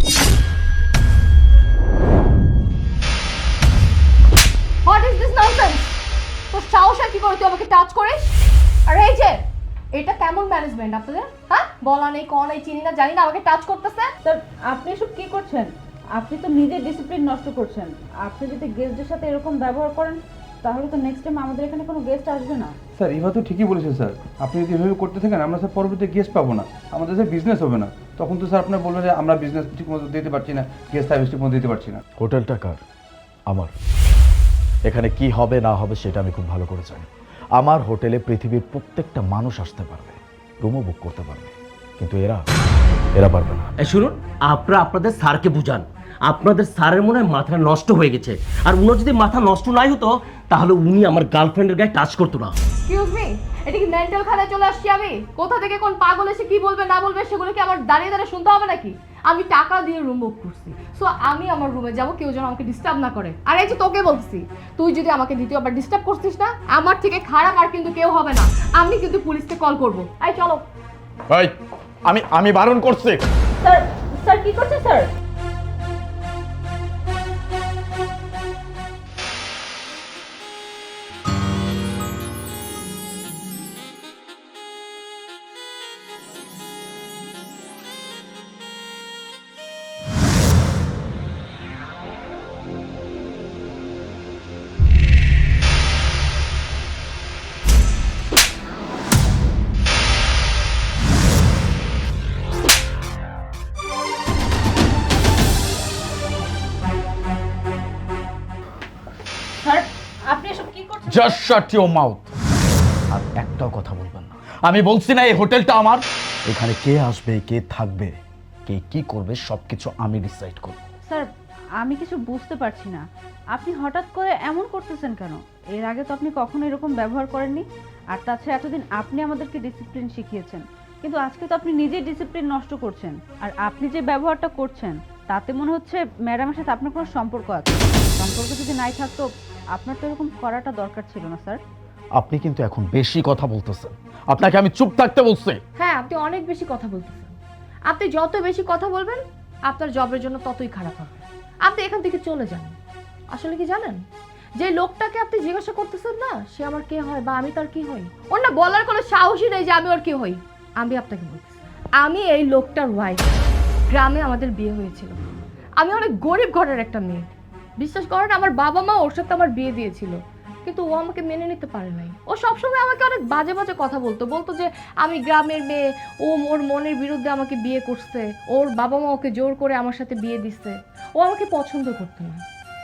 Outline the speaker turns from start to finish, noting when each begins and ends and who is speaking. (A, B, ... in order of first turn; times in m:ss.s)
0:04.8-0:06.0 A
0:06.5-0:08.3 A
0:08.9-0:09.4 A
0:09.9-0:14.1 A
0:14.2-0:22.8 B
0:23.0-0:32.0 C
0:32.2-0:32.8 D
0:34.8-0:42.4 D
0:43.1-0:43.7 D
0:43.8-0:52.5 E
0:52.8-1:10.6 A
1:11.3-1:13.2 D
1:13.6-1:15.1 B
1:49.6-1:51.4 B
1:51.1-1:52.3 D
1:53.1-2:00.8 D
2:01.8-2:21.6 B
2:22.2-2:25.6 D
2:25.8-2:27.3 A
2:27.9-2:32.8 A
2:33.3-2:34.0 A
2:34.6-2:43.3 A
2:43.9-2:45.2 A
2:45.8-3:02.4 A